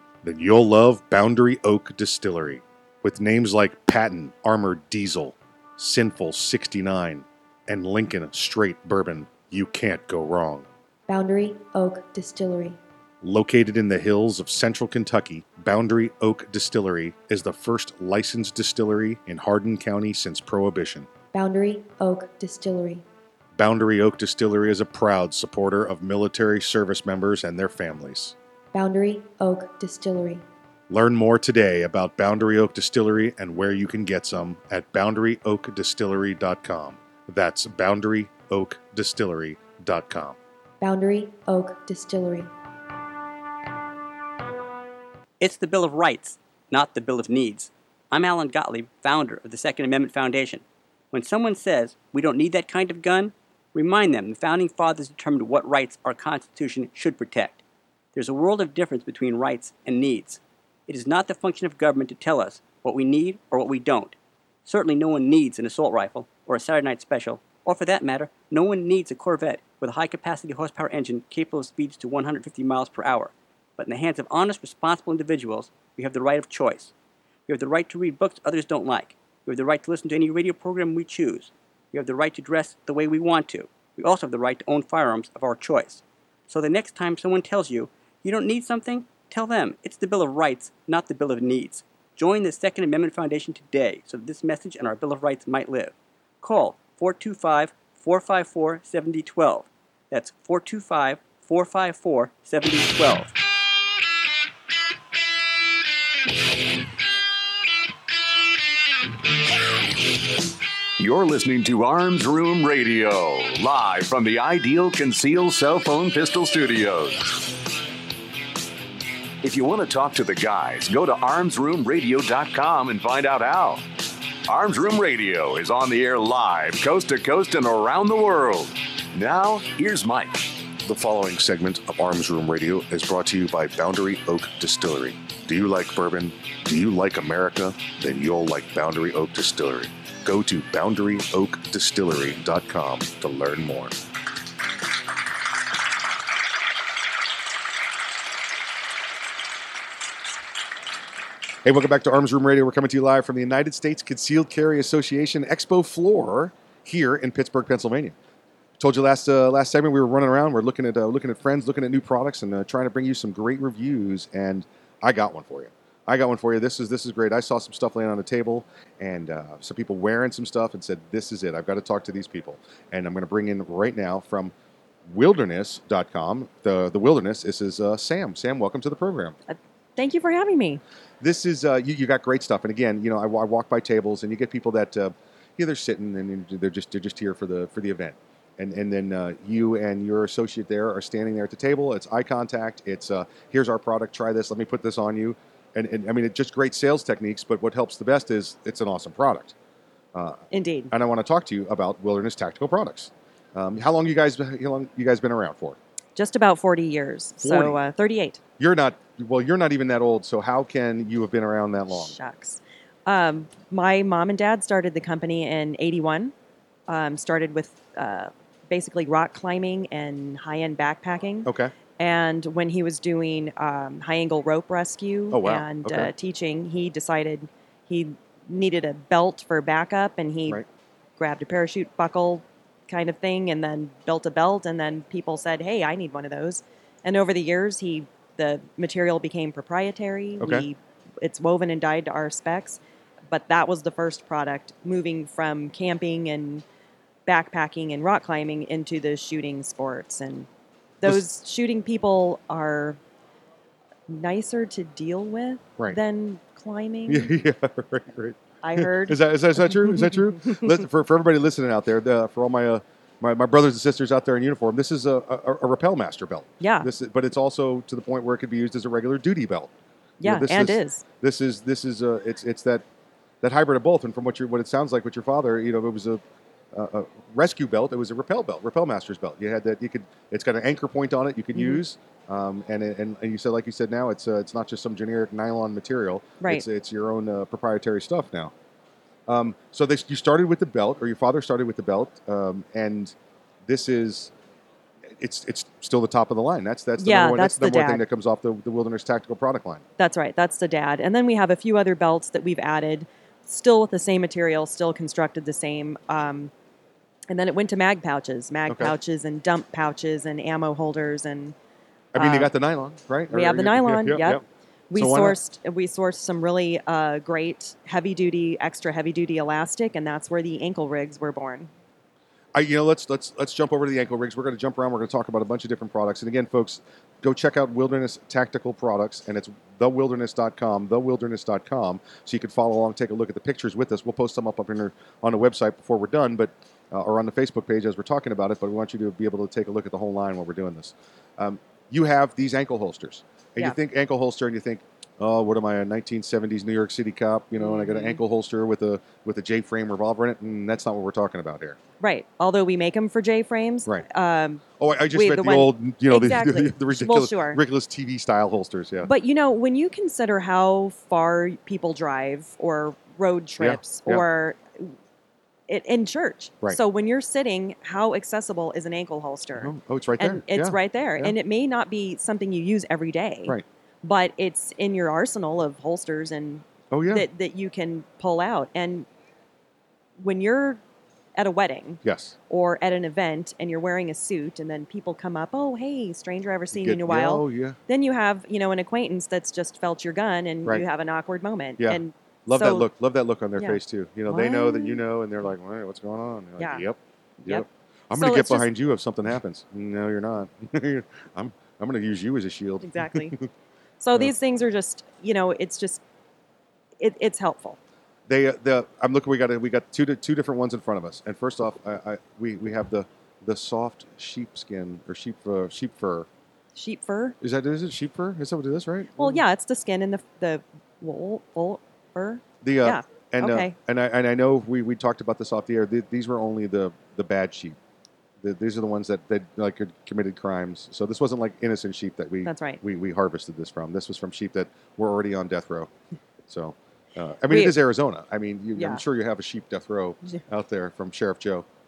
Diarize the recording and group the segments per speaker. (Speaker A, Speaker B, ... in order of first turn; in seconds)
Speaker A: 0.2-10.7, 13.2-21.1, 23.6-28.3, 30.9-40.4, 130.8-143.9, 151.6-158.1, 158.8-174.5, 175.1-179.4, 181.2-199.5, 200.1-205.8, 207.4-207.8, 208.6-212.1, 221.4-221.7, 225.3-226.1, 240.4-240.7, 257.1-272.8, 273.4-276.2, 276.7-288.5, 289.3-293.1, 293.6-294.3, 295.2-299.8, 308.7-308.9, 312.1-314.4, 314.9-315.4, 322.5-351.8, 354.8-359.1, 363.6-364.2, 369.6-371.4, 376.9-377.3, 382.0-382.3, 386.7-387.8, 391.8-403.5, 408.3-416.3, 417.4-419.4, 422.6-427.8, 428.4-435.9, 436.5-441.6
Speaker B: 11.1-12.8, 21.3-23.0, 28.7-30.4, 40.8-42.5
Speaker C: 45.4-57.6, 58.1-76.9, 77.5-103.3
Speaker D: 111.0-117.4, 119.4-123.8, 124.5-130.5
Speaker E: 179.5-180.8, 200.5-200.9, 206.1-208.4, 211.9-216.3, 216.9-230.6, 231.2-246.6, 247.2-250.5, 251.0-253.0, 254.1-257.3, 258.6-260.5, 266.6-266.9, 270.2-271.0, 281.5-281.8, 297.0-298.0, 300.0-306.5, 307.3-311.5, 312.1-312.5, 313.3-321.7, 347.6-348.2, 352.0-357.6, 359.0-364.9, 365.7-379.1, 380.2-380.8, 381.4-392.9, 393.6-395.0, 396.6-396.8, 397.4-398.7, 402.8-403.4, 404.0-406.0, 407.0-407.8, 416.7-417.4, 419.2-423.7, 432.4-432.8, 437.5-437.8, 438.8-439.0